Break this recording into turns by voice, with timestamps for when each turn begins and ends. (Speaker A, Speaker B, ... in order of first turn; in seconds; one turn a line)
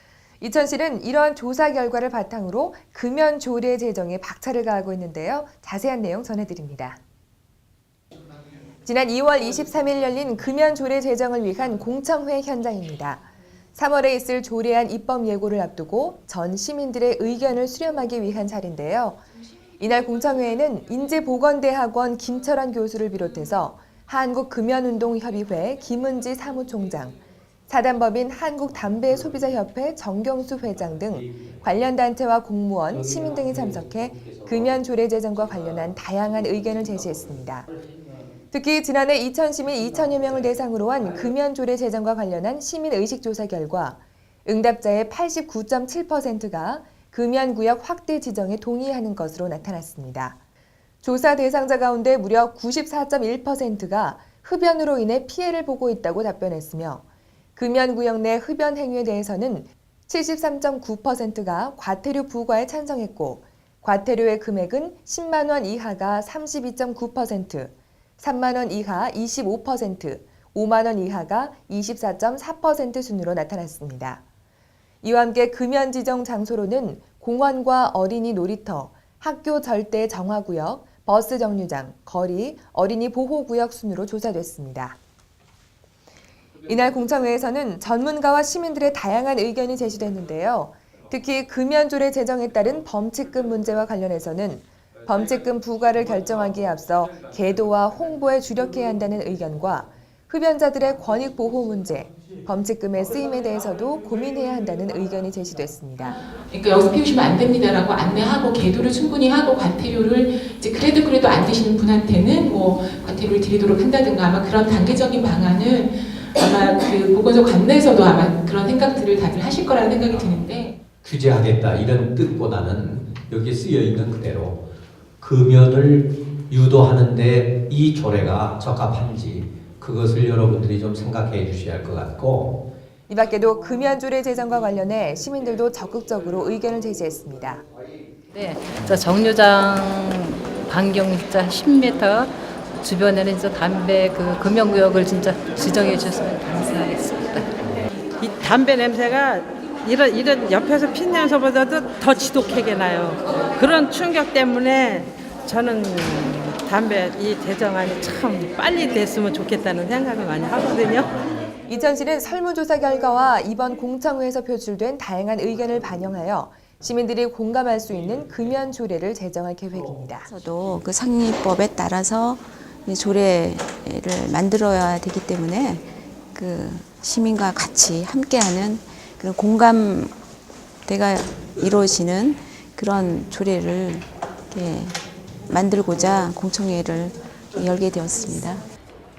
Speaker A: 0.4-7.0
Speaker A: 8.8-19.2
Speaker A: 19.8-27.2
Speaker A: 27.7-37.7
Speaker A: 38.5-50.4
Speaker A: 51.0-57.0
Speaker A: 57.5-74.2
Speaker A: 75.0-85.0
Speaker A: 86.7-106.2
Speaker B: 106.5-120.7
Speaker C: 121.0-124.6
Speaker C: 125.2-132.6
Speaker A: 133.1-137.6
Speaker D: 138.3-147.5
Speaker E: 148.2-161.1
Speaker A: 161.6-170.3
Speaker F: 170.2-180.1
Speaker F: 180.8-188.7